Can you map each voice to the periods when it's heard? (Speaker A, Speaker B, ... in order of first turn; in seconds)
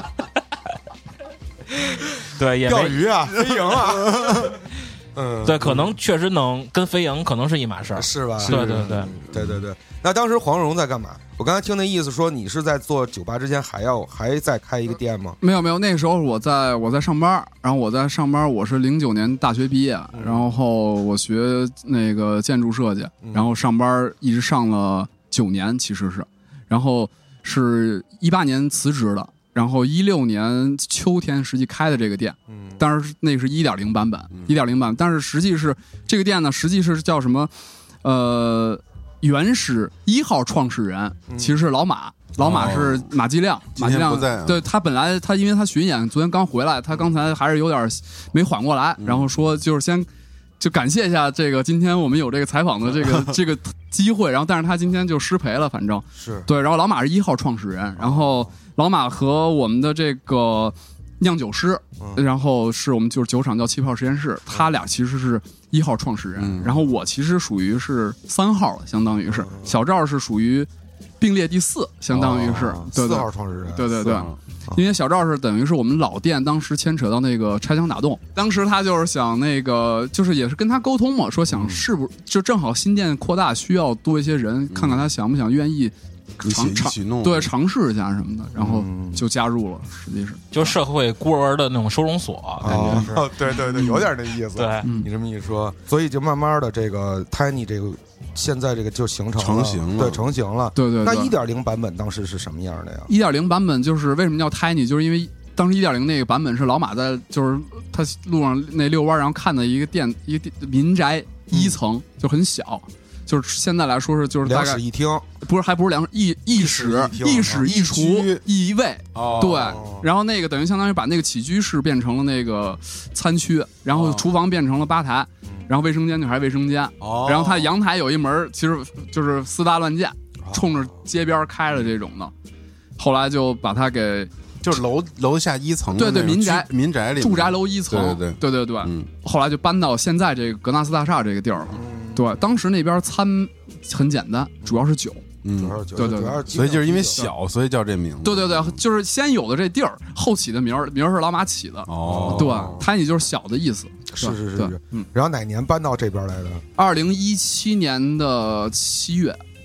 Speaker A: 1.8-3.0, 5.4-9.1, 90.5-92.8, 94.5-94.8
Speaker B: 2.6-4.6, 5.1-6.0, 7.9-15.4, 20.1-20.5, 23.2-23.5, 32.5-32.8, 41.3-41.5, 56.1-56.5, 58.0-58.5, 69.3-69.8, 72.1-73.9, 81.5-81.8, 88.5-89.2, 92.6-103.1, 111.5-111.8, 114.4-115.2, 116.5-117.7, 119.4-120.1, 130.4-130.8, 141.7-142.2, 145.5-147.2, 152.1-152.8, 154.1-156.6
Speaker C: 4.0-4.5, 8.5-9.5, 42.4-43.1, 43.8-44.6, 49.0-49.3, 53.0-53.4, 66.4-66.8, 72.1-72.8, 73.9-74.3, 84.7-85.1, 86.4-87.5, 92.7-93.2, 99.4-100.2, 117.4-118.4, 119.1-119.8, 123.9-124.2, 127.0-127.7, 134.6-139.1, 145.4-145.8, 146.5-148.8, 151.9-152.9
Speaker D: 15.4-37.5, 38.0-50.1, 50.6-70.7, 71.2-90.5, 92.6-94.1, 100.8-101.3, 103.1-114.8, 115.4-132.3, 133.0-134.3, 135.9-145.2, 145.9-147.3, 148.2-155.1, 156.8-159.4